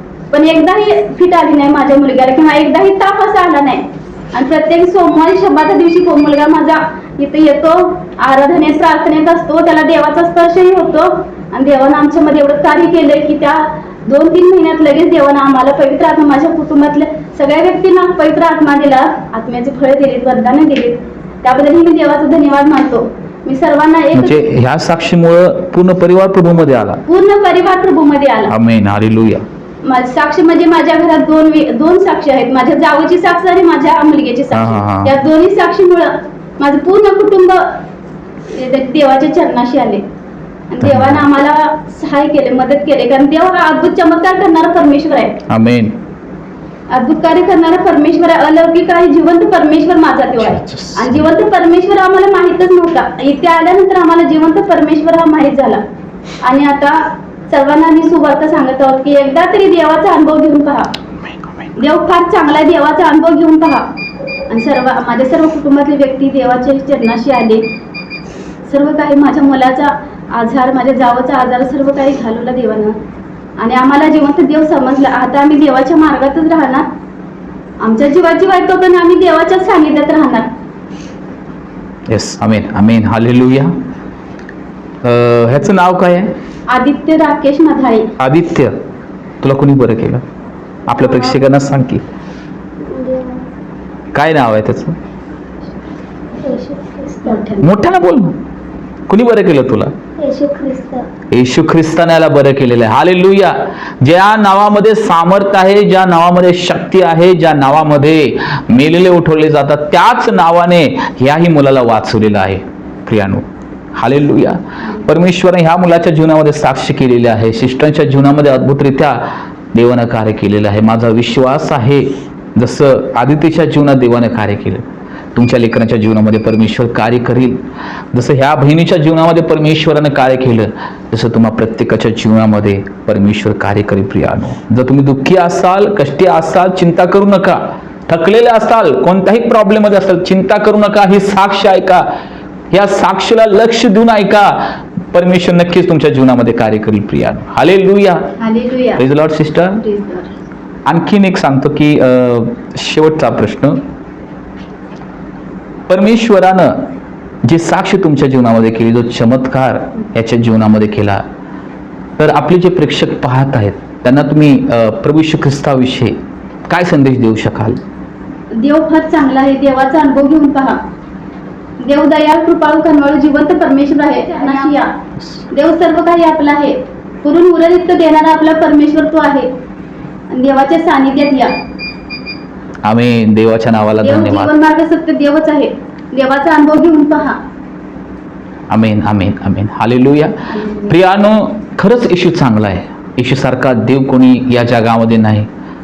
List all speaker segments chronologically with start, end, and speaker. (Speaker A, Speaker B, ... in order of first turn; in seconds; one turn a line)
Speaker A: 0.3-24.5
Speaker B: 24.1-27.0
Speaker A: 27.1-28.5
Speaker B: 28.5-29.4
Speaker A: 29.8-37.8
Speaker B: 34.5-35.1
Speaker A: 38.5-40.0
Speaker A: 40.7-45.4
Speaker B: 40.8-41.2
Speaker B: 45.5-46.0
Speaker A: 46.9-55.8
Speaker B: 50.4-51.3
Speaker A: 56.4-60.9
Speaker A: 61.8-63.8
Speaker A: 64.5-67.6
Speaker A: 68.7-72.9
Speaker A: 73.6-76.8
Speaker A: 77.8-80.5
Speaker B: 82.1-83.8
Speaker B: 85.0-86.3
Speaker A: 86.7-88.1
Speaker B: 88.2-88.8
Speaker B: 89.4-90.2
Speaker B: 90.9-92.0
Speaker C: 92.8-93.4
Speaker B: 94.1-95.0
Speaker C: 96.4-97.4
Speaker A: 97.2-97.7
Speaker B: 97.6-98.4
Speaker B: 99.1-100.0
Speaker C: 100.2-101.1
Speaker B: 101.3-113.5
Speaker B: 114.0-127.6
Speaker A: 114.8-115.1
Speaker B: 128.1-142.1
Speaker B: 142.7-148.3
Speaker A: 148.4-149.1
Speaker B: 149.0-149.8
Speaker A: 149.8-150.3
Speaker B: 150.9-153.8
Speaker B: 155.9-156.9
Speaker B: 157.4-161.2
Speaker B: 162.2-166.2
Speaker B: 166.7-167.8
Speaker A: 168.6-170.8
Speaker A: 171.8-174.9
Speaker A: 175.5-179.5
Speaker A: 180.3-181.5
Speaker B: 182.8-184.5
Speaker A: 184.0-187.4
Speaker B: 188.7-195.5
Speaker A: 190.5-191.0